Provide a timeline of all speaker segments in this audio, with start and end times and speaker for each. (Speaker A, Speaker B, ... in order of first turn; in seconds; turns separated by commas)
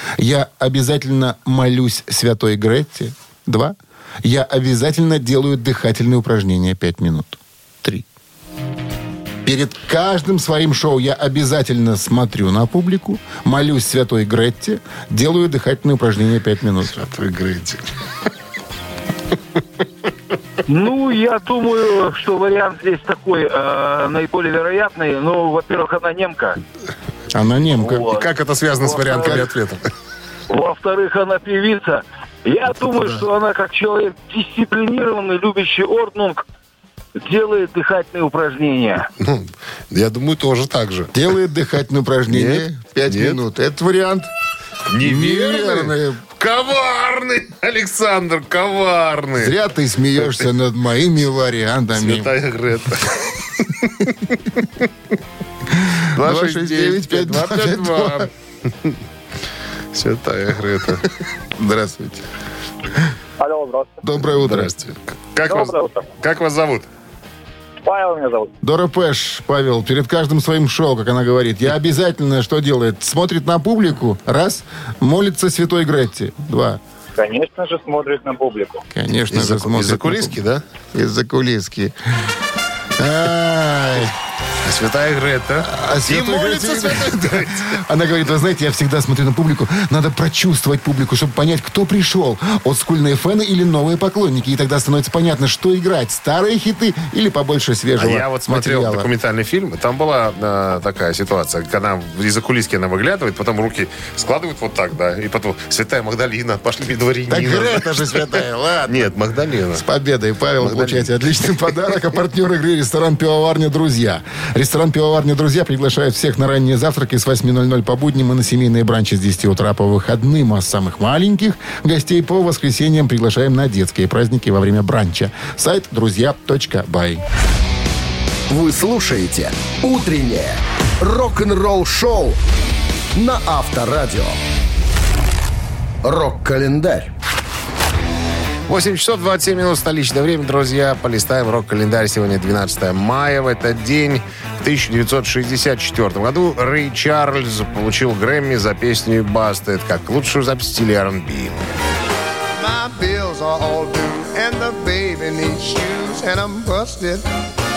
Speaker A: 0.2-8.1, Speaker A: 9.4-17.1, Speaker B: 17.0-17.8, Speaker C: 20.7-26.6, Speaker A: 27.3-28.1, Speaker B: 27.9-29.8, Speaker C: 27.9-29.5, Speaker C: 30.5-36.4, Speaker C: 37.2-39.1, Speaker B: 39.2-41.2, Speaker A: 41.1-44.3, Speaker B: 42.3-43.4, Speaker B: 44.9-49.6, Speaker A: 45.0-46.2, Speaker A: 49.4-52.3, Speaker B: 51.9-54.9, Speaker A: 55.8-58.3, Speaker B: 56.1-58.3, Speaker B: 59.9-61.1, Speaker A: 61.6-62.2, Speaker D: 63.4-64.0, Speaker A: 64.0-64.7, Speaker B: 64.4-66.9, Speaker D: 65.5-66.0, Speaker D: 67.8-68.5, Speaker A: 68.6-76.8, Speaker D: 77.2-78.8, Speaker A: 78.9-80.4, Speaker B: 79.3-80.6, Speaker A: 80.9-81.9, Speaker A: 83.0-84.1, Speaker B: 84.6-87.8, Speaker A: 85.6-99.1, Speaker B: 98.0-109.9, Speaker A: 107.3-109.1, Speaker A: 109.7-127.2, Speaker B: 110.6-111.9, Speaker E: 128.5-132.4, Speaker E: 133.1-134.4, Speaker E: 136.0-137.1, Speaker B: 138.7-151.6, Speaker F: 152.6-157.3